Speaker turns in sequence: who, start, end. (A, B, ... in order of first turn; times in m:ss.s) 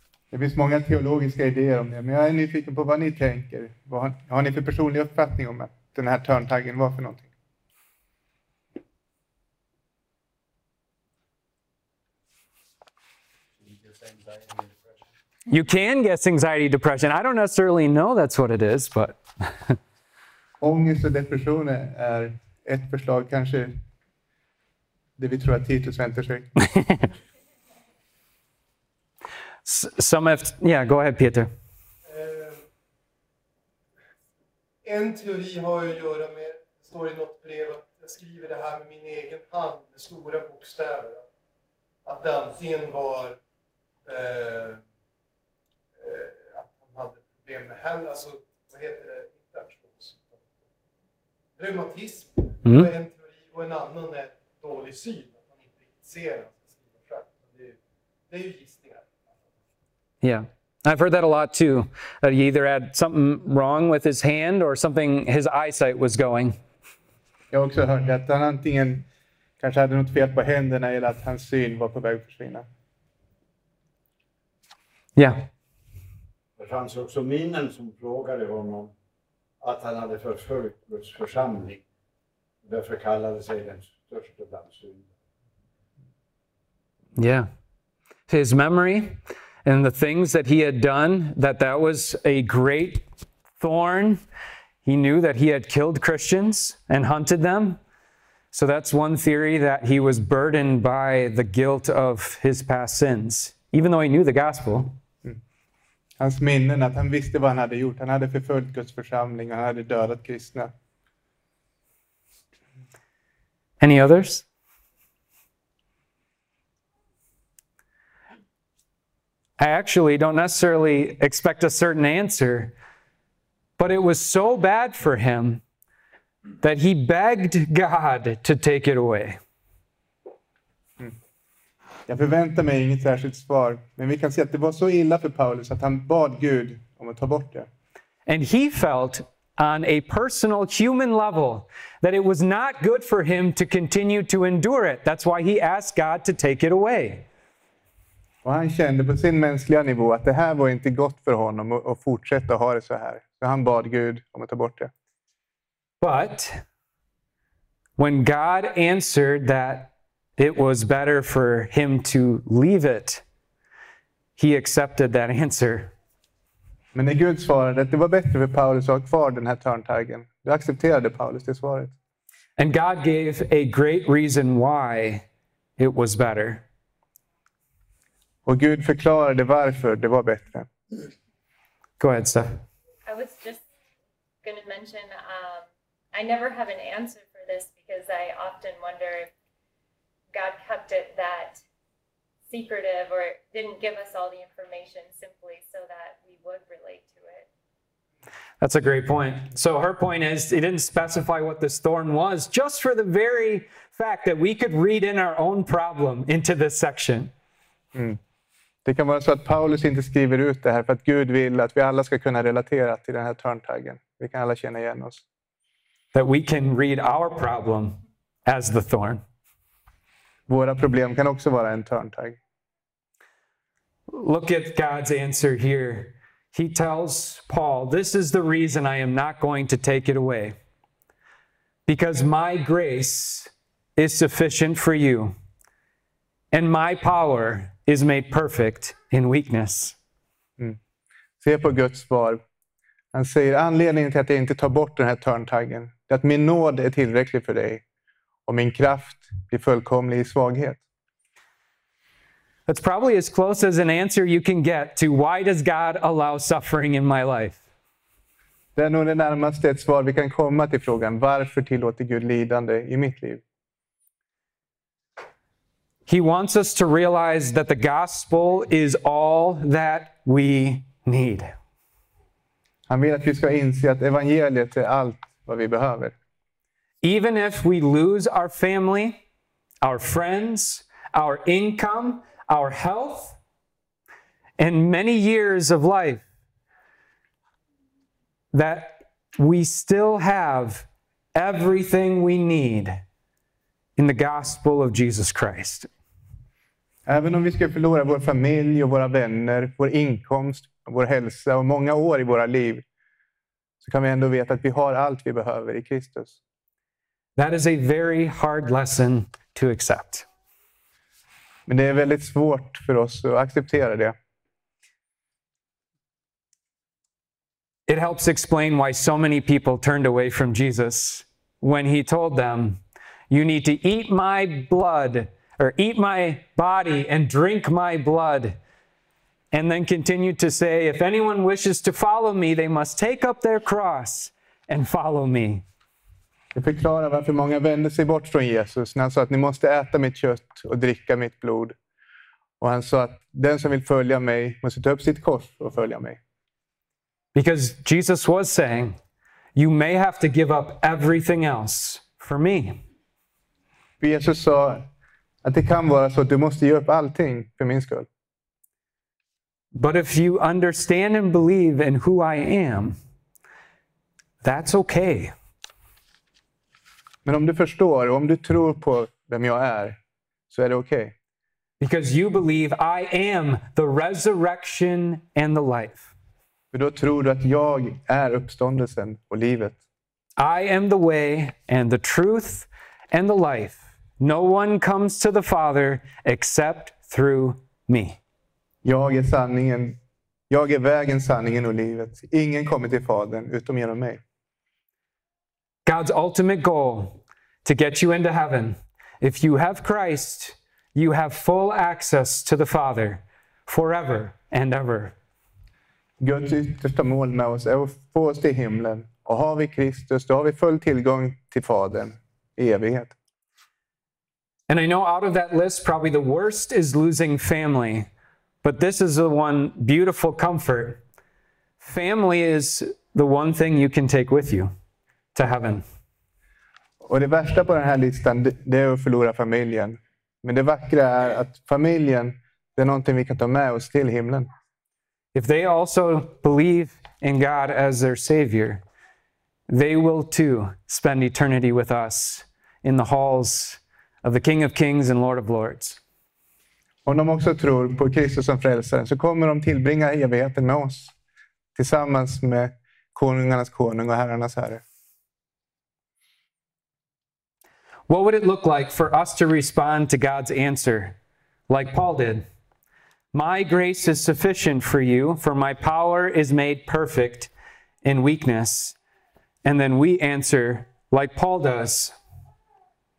0:00.3-0:07.3 A
0:13.6-0:15.1 B
0:15.5-0:19.7 C
0:20.6-0:23.8 A
0:25.2-0:26.5 A
0:29.6-0:31.5 C
0:32.0-0:32.6 D
0:34.8-0:41.2 D
0:42.0-0:43.4 D
0:44.0-0:44.8 D
0:46.0-0:50.4 D
0:51.6-0:57.8 D
0:52.6-0:52.9 C
0:58.3-0:59.1 D
1:00.2-1:06.6 C
1:07.5-1:09.1 A
1:09.6-1:12.6 A
1:15.2-1:15.5 C
1:16.6-1:18.9 B
1:19.6-1:21.8 B
1:22.6-1:25.1 B
1:27.2-1:27.5 C
1:28.3-1:33.0 C
1:33.6-1:34.2 C
1:34.8-1:37.8 C
1:38.5-1:45.0 C
1:46.2-1:50.7 A
1:53.8-1:54.4 C
1:59.6-2:02.7 C
2:03.8-2:05.6 C
2:06.6-2:09.4 C
2:12.1-2:17.7 A
2:18.3-2:27.3 C
2:28.4-2:34.9 A
2:36.0-2:36.6 C
2:38.0-2:43.2 C
2:44.4-2:45.9 C
2:46.9-2:51.9 A
2:52.6-2:55.2 C
2:55.8-2:56.6 C
2:58.4-3:00.7 A
3:02.0-3:02.6 C
3:03.1-3:03.6 E
3:04.4-3:09.3 E
3:10.3-3:11.6 E
3:12.5-3:17.5 E
3:18.6-3:27.3 C
3:27.9-3:28.2 A
3:28.8-3:35.2 A
3:36.1-3:39.2 C
3:40.5-3:42.4 A
3:44.1-3:50.6 C
3:51.9-3:55.4 C
3:56.5-4:00.0 C
4:01.4-4:02.4 A
4:03.1-4:07.8 A
4:08.5-4:10.8 A
4:12.7-4:17.6 C
4:18.8-4:23.4 A
4:26.0-4:31.5 C
4:32.9-4:36.1 A
4:37.0-4:39.2 C
4:39.8-4:43.4 C
4:44.6-4:46.2 C
4:48.5-4:53.0 C
4:54.0-4:55.9 C
4:57.0-5:02.8 A
5:03.8-5:06.4 A
5:07.4-5:10.2 C
5:11.7-5:14.2 A
5:17.9-5:28.6 C
5:29.5-5:35.6 C
5:36.5-5:41.8 A
5:42.6-5:46.2 A
5:47.3-5:49.0 C
5:49.5-5:52.8 C
5:54.0-5:54.9 A
5:55.4-5:58.1 A
5:59.7-6:03.0 C
6:04.4-6:05.3 C
6:07.2-6:10.0 A
6:10.5-6:11.1 A
6:11.8-6:16.1 C
6:16.7-6:19.8 A
6:20.4-6:28.2 C
6:28.8-6:30.0 A
6:30.5-6:34.2 A
6:35.8-6:45.1 C
6:46.2-6:53.1 A
6:54.7-6:58.1 C
6:58.6-7:01.0 C
7:01.8-7:04.7 C
7:05.3-7:05.8 C
7:07.0-7:14.5 A
7:15.3-7:18.8 C
7:19.7-7:26.0 C
7:27.0-7:31.1 A
7:31.8-7:34.8 A
7:38.1-7:41.2 C
7:41.7-7:42.4 C
7:43.3-7:47.5 C
7:48.0-7:49.0 C
7:49.6-7:52.1 C